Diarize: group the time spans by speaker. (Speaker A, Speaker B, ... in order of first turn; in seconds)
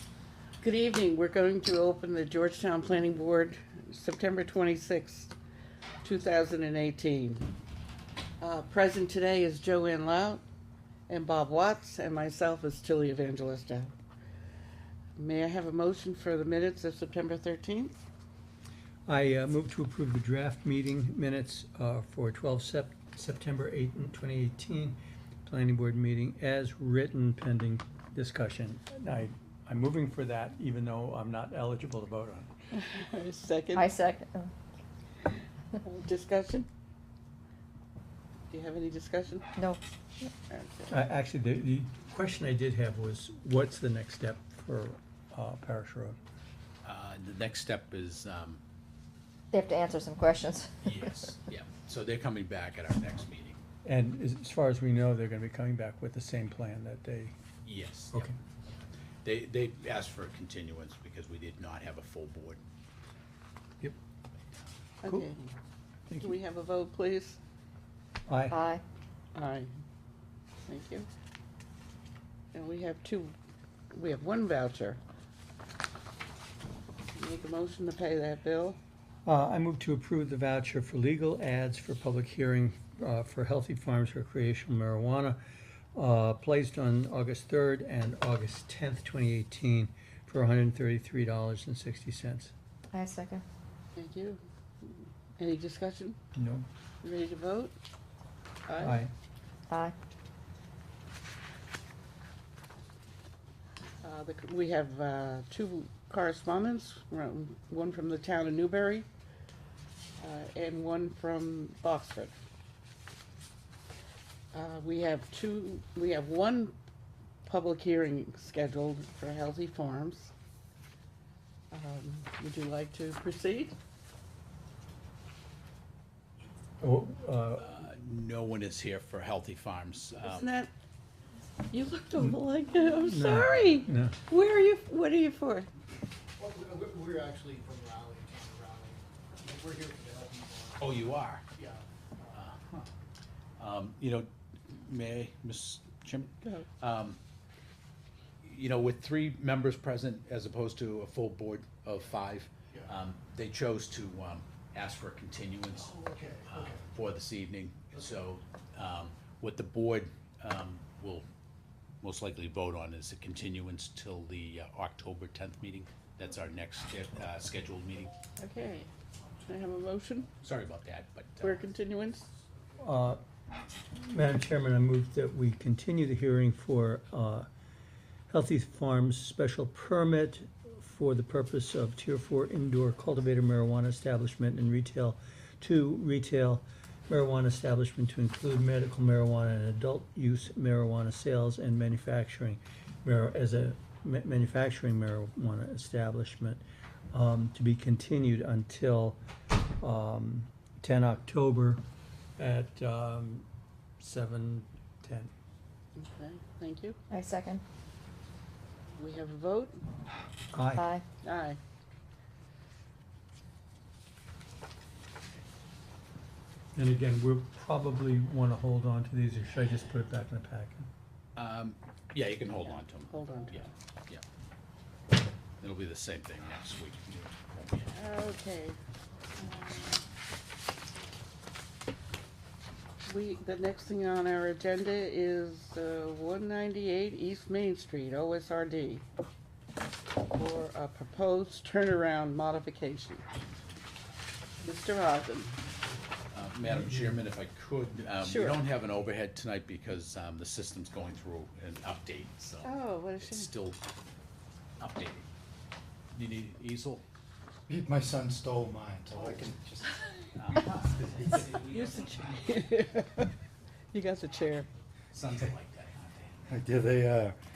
Speaker A: 0.6-5.3, 6.0-7.5, 8.4-10.4, 11.1-13.9, 15.2-17.9, 32.7-33.9, 35.8-36.7, 38.5-39.5, 40.5-41.0, 65.0-65.5, 66.2-67.4, 69.3-69.7, 70.7-71.1, 72.5-73.3, 73.9-75.0, 77.1-78.8, 94.0-96.2, 97.0-97.7, 98.7-99.0, 104.0-109.0, 110.2-112.3, 114.5-116.7, 117.4-120.3, 121.7-123.7, 130.2-130.7, 131.7-135.7, 168.4-168.9, 169.4-170.3, 171.4-172.3, 205.9-207.0, 208.9-209.8, 211.2-211.6, 223.1-223.7, 227.8-228.8, 229.4-230.0, 233.1-239.0, 240.2-243.2, 244.6-245.6, 248.2-248.6, 252.6-253.5, 261.4-263.3, 263.9-264.7
Speaker B: 19.1-32.5, 40.9-46.2, 53.8-57.3, 66.1-66.3, 68.3-68.5, 79.2-85.4, 85.9-92.5, 96.3-96.6, 98.8-99.1, 126.8-127.7, 133.1-134.1, 172.8-173.2, 173.9-177.5, 178.3-199.2, 199.8-201.8, 202.4-203.4, 204.0-205.3, 210.5-210.8, 216.7-220.9
Speaker C: 33.7-34.5, 49.5-50.7, 68.5-68.8, 92.9-93.4, 207.1-207.6, 210.7-211.0
Speaker D: 46.8-48.6, 50.8-53.6, 57.6-58.3, 59.2-62.6, 127.6-130.5, 140.8-141.4, 142.3-142.8, 143.6-147.2, 148.4-161.2, 162.0-168.1, 170.4-171.6, 221.3-224.2, 225.6-227.9, 246.3-253.8, 254.8-255.3, 256.1-257.0, 260.3-262.8, 265.1-266.9
Speaker E: 136.4-140.9, 141.6-141.8, 155.8-156.7, 257.7-259.9, 266.5-267.4